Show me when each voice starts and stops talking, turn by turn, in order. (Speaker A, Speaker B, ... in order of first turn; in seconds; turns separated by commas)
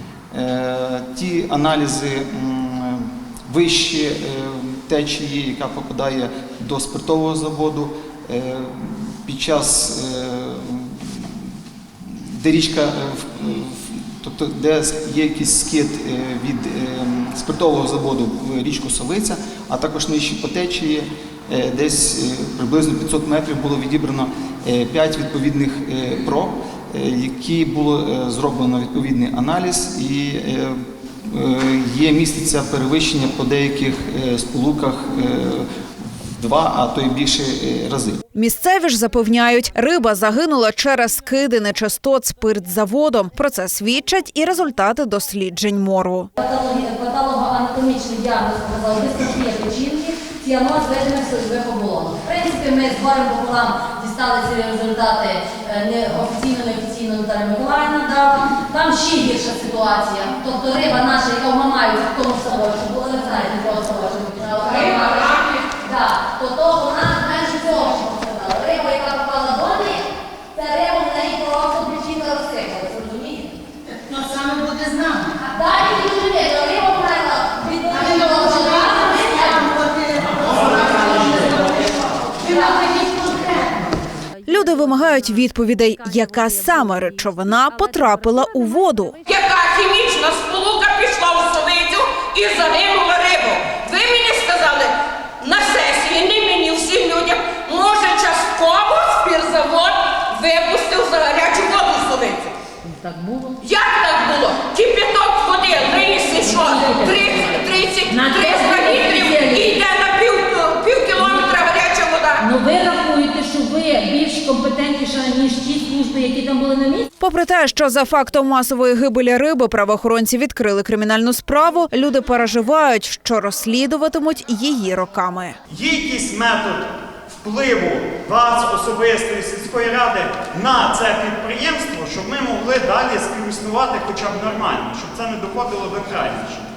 Speaker A: 0.3-35.6, Speaker A: 36.3-38.2, Speaker B: 38.4-46.3, Speaker C: 46.4-73.6, Speaker C: 75.4-81.9, Speaker C: 82.5-83.6, Speaker B: 84.5-89.2, Speaker D: 89.3-102.5, Speaker E: 102.8-103.6, Speaker D: 103.6-112.4, Speaker E: 106.4-109.8, Speaker E: 111.2-111.5, Speaker E: 112.4-117.1, Speaker B: 117.2-125.6, Speaker F: 125.7-126.8, Speaker F: 127.4-136.6